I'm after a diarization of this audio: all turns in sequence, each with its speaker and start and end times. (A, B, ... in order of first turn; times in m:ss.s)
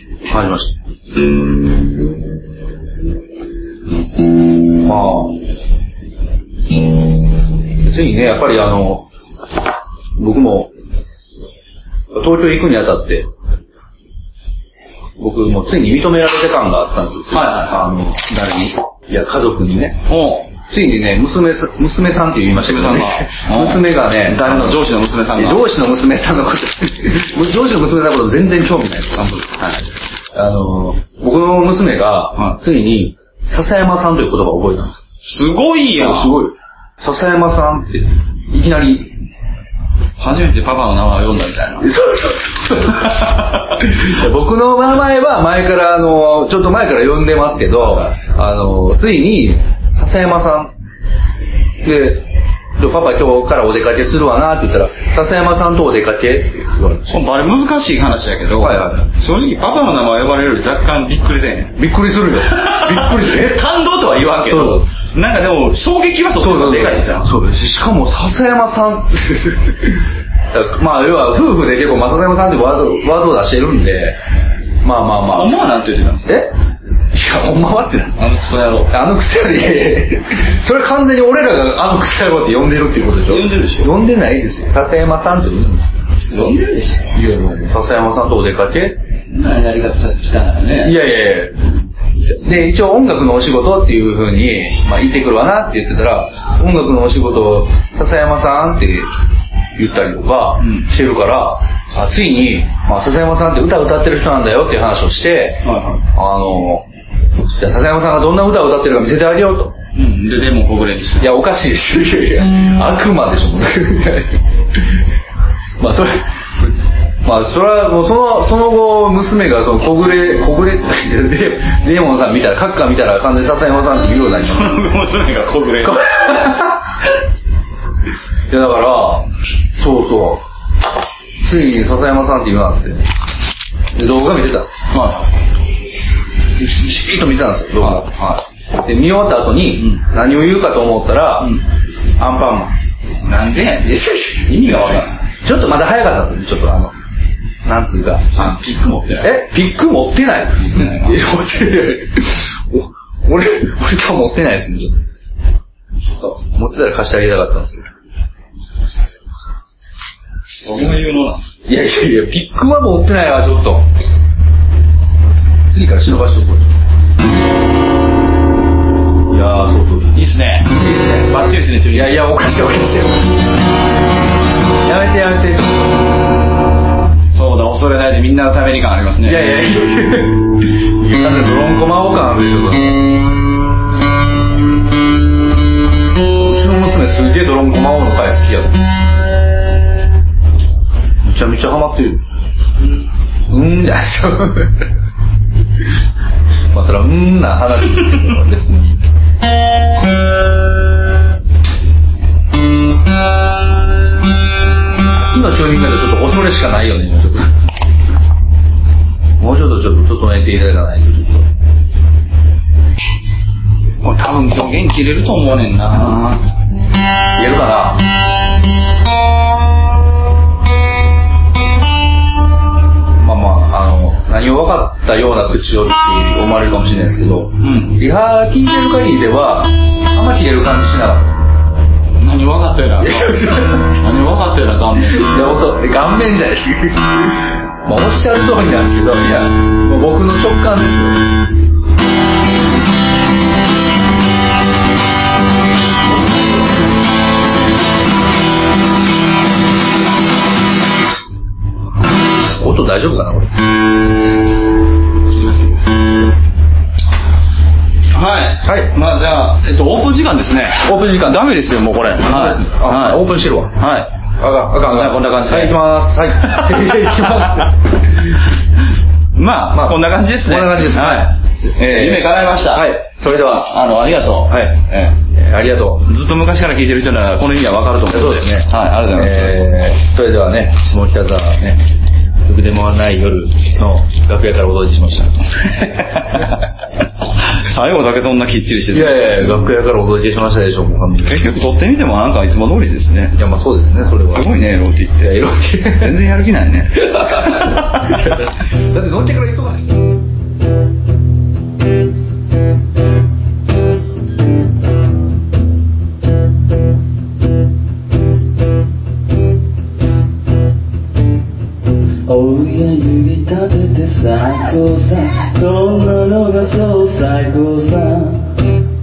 0:00.3-0:00.8 A
0:04.8-0:05.4 A
0:07.8-0:09.1 A
0:10.2-0:10.7 A
0:12.1-0:13.3 A
0:15.2-0:29.2 A
0:17.3-0:17.8 B
0:20.1-0:20.5 B
0:22.6-0:25.7 B
0:29.2-0:29.9 B
0:30.3-0:35.0 A
0:35.2-0:36.5 B
0:36.0-0:39.2 A
0:40.2-0:42.0 B
0:41.8-0:50.7 A
0:51.8-0:57.2 A
0:57.1-1:01.8 B
0:58.6-0:59.1 A
1:01.8-1:03.6 A
1:02.4-1:07.3 B
1:04.4-1:04.9 A
1:06.4-1:14.2 A
1:14.8-1:15.6 A
1:15.3-1:16.4 B
1:16.3-1:16.6 A
1:17.1-1:18.3 A
1:18.2-1:18.9 B
1:18.9-1:25.8 A
1:23.2-1:23.9 B
1:26.3-1:27.2 B
1:27.1-1:29.0 A
1:29.3-1:31.0 B
1:30.8-1:39.1 A
1:39.8-1:46.9 A
1:40.6-1:40.9 B
1:45.6-1:46.1 B
1:47.5-1:49.8 A
1:49.9-1:51.3 B
1:51.2-1:55.1 A
1:55.8-1:56.3 A
1:57.2-2:04.9 A
2:04.5-2:06.5 B
2:05.8-2:06.9 A
2:08.5-2:10.4 A
2:11.4-2:13.0 A
2:13.9-2:14.8 A
2:14.9-2:15.3 B
2:16.6-2:21.6 A
2:22.2-2:22.8 A
2:23.2-2:25.3 B
2:23.8-2:24.7 A
2:25.3-2:26.9 A
2:27.6-2:28.6 A
2:28.3-2:29.4 B
2:29.2-2:35.0 A
2:30.6-2:31.2 B
2:36.1-2:37.9 A
2:40.6-2:41.6 B
2:41.7-2:43.9 A
2:45.6-2:46.7 A
2:49.3-2:53.4 A
2:50.1-2:52.2 B
2:54.8-2:56.1 A
2:57.3-2:59.6 B
2:59.3-3:03.1 A
3:06.4-3:08.8 A
3:11.2-3:12.2 A
3:13.5-3:14.9 A
3:16.7-3:19.0 A
3:25.3-3:27.5 A
3:29.4-3:31.5 A
3:34.0-3:36.4 B
3:37.4-3:38.1 A
3:43.2-3:51.5 A
3:47.6-3:48.0 B
3:52.2-3:55.3 B
3:53.0-3:54.0 A
3:55.2-4:01.3 A
4:06.1-4:06.7 A
4:12.6-4:13.5 A
4:15.3-4:16.0 B
4:18.1-4:24.2 B
4:18.6-4:19.0 A
4:20.8-4:21.5 A
4:22.2-4:23.8 A
4:24.4-4:28.0 A
4:24.8-4:27.7 B
4:29.3-4:35.2 B
4:29.7-4:33.7 A
4:34.5-4:36.1 A
4:36.0-4:39.7 B
4:38.1-4:41.8 A
4:42.4-4:45.3 A
4:45.6-4:46.7 B
4:47.4-4:49.6 B
4:48.9-4:51.4 A
4:51.2-4:53.4 B
4:53.4-4:54.5 A
4:54.3-4:58.4 B
4:55.2-4:56.2 A
4:57.0-5:00.2 A
5:12.3-5:18.6 C